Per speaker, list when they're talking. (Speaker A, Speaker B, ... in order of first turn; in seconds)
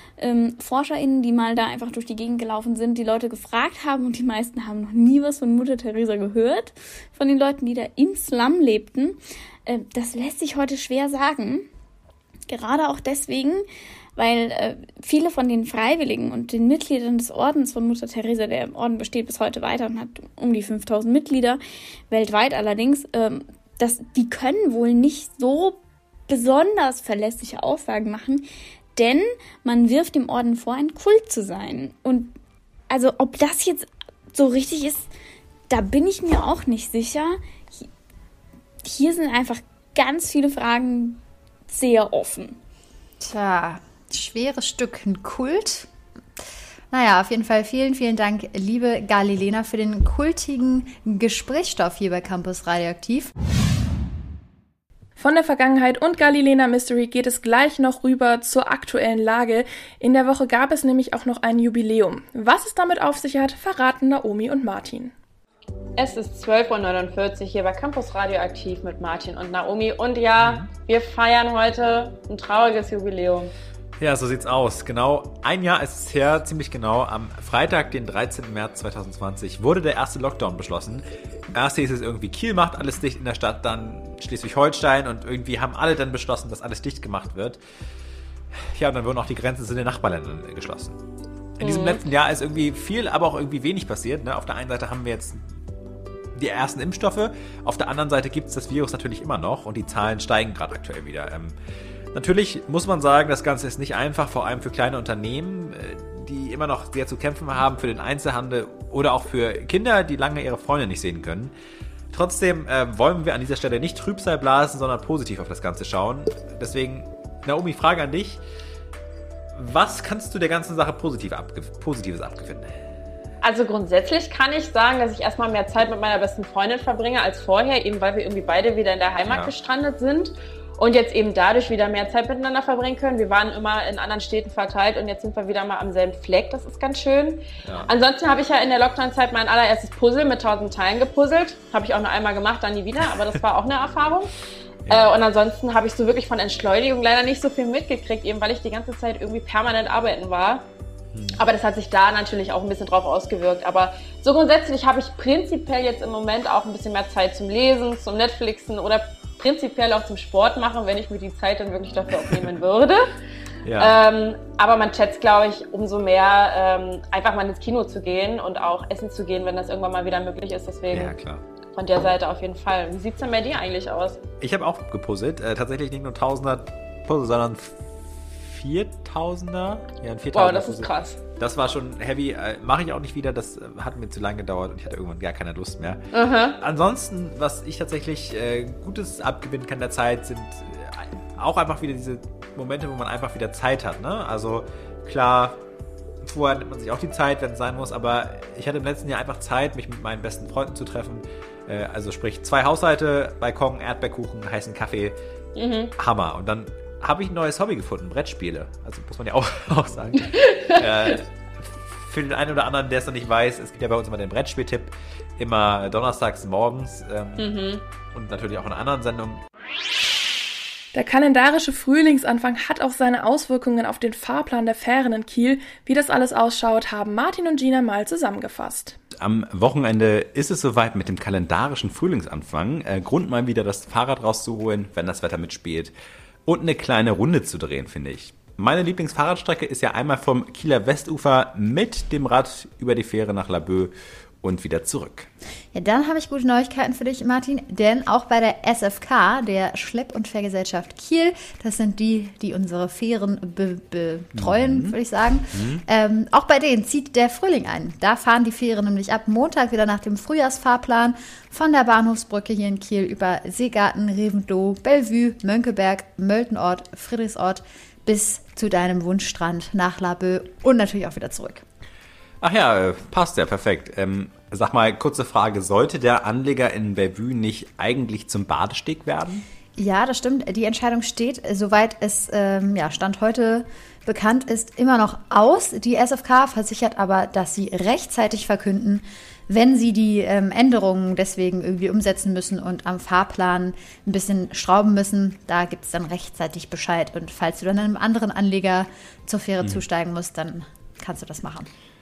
Speaker A: 0.2-11.7, 12.5-13.6, 14.2-28.4, 29.0-32.3, 32.9-35.1, 35.7-37.8, 38.8-42.6
Speaker B: 43.2-45.9, 46.9-53.3, 245.7-271.6, 279.8-301.7
Speaker C: 55.2-65.1, 220.9-229.0
Speaker D: 66.0-73.5, 91.6-92.0, 123.4-144.3, 144.9-150.6, 151.3-163.1, 163.8-171.1, 171.7-174.2, 180.3-181.2, 186.1-186.6, 205.6-205.9, 210.2-211.2, 217.4-217.8
Speaker E: 70.4-70.7, 74.0-87.6, 88.7-91.0, 91.6-95.4, 96.3-101.5, 102.1-111.5, 112.1-118.4, 119.5-122.8, 129.2-129.5, 137.7-137.9, 144.9-145.2, 163.6-164.0, 170.9-171.4, 174.4-195.6, 196.2-205.2, 206.0-211.3, 211.9-217.5, 218.1-219.4, 229.2-235.9, 236.5-245.3, 254.4-255.0, 255.6-255.8, 272.4-279.5